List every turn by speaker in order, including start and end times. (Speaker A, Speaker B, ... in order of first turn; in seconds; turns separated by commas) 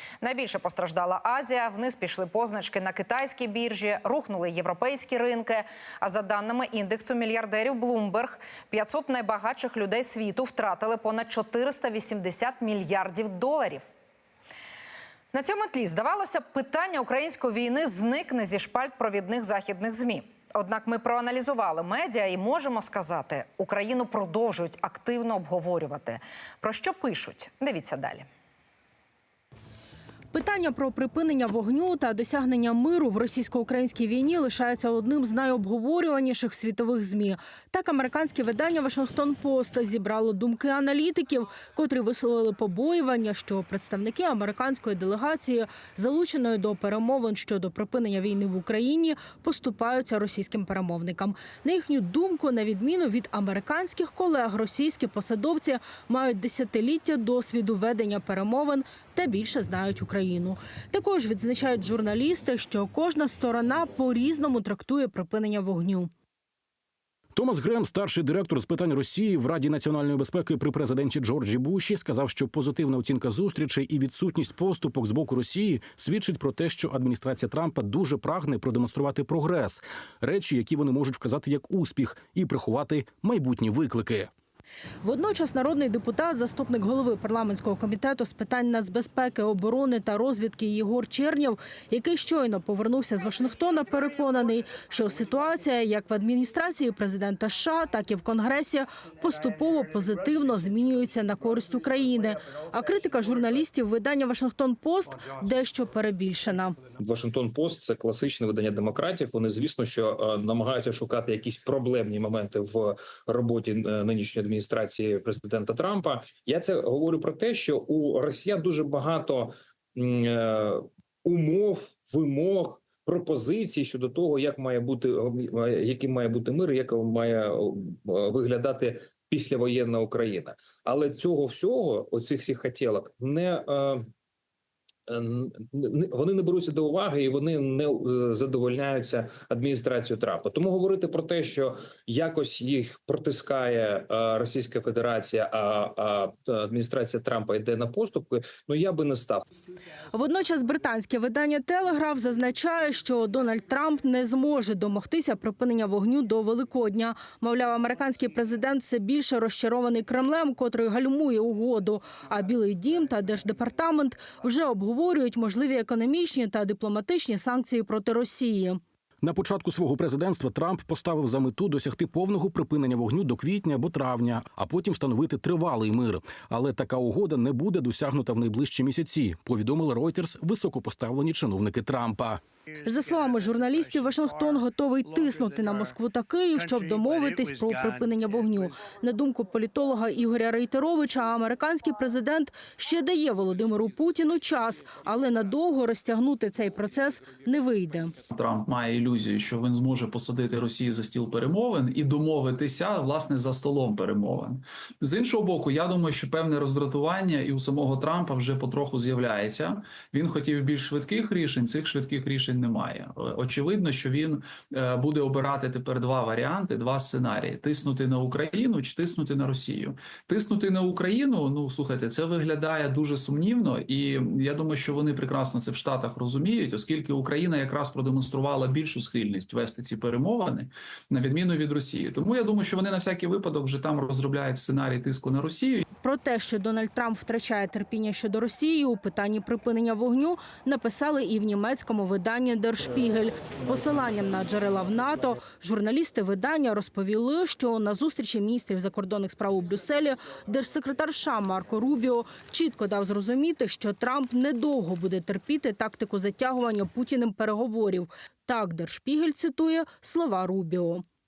Speaker A: 0.2-13.9, Speaker A: 15.3-28.3, Speaker B: 30.3-66.1, Speaker C: 67.3-84.3, Speaker B: 85.0-106.8, Speaker D: 107.0-134.1, Speaker D: 135.1-149.4, Speaker B: 150.1-168.8, Speaker C: 169.2-182.4, Speaker B: 182.8-198.1, Speaker E: 198.3-204.4, Speaker E: 205.0-209.5, Speaker E: 210.1-214.1, Speaker E: 214.8-219.6, Speaker E: 220.3-235.8, Speaker B: 236.0-261.0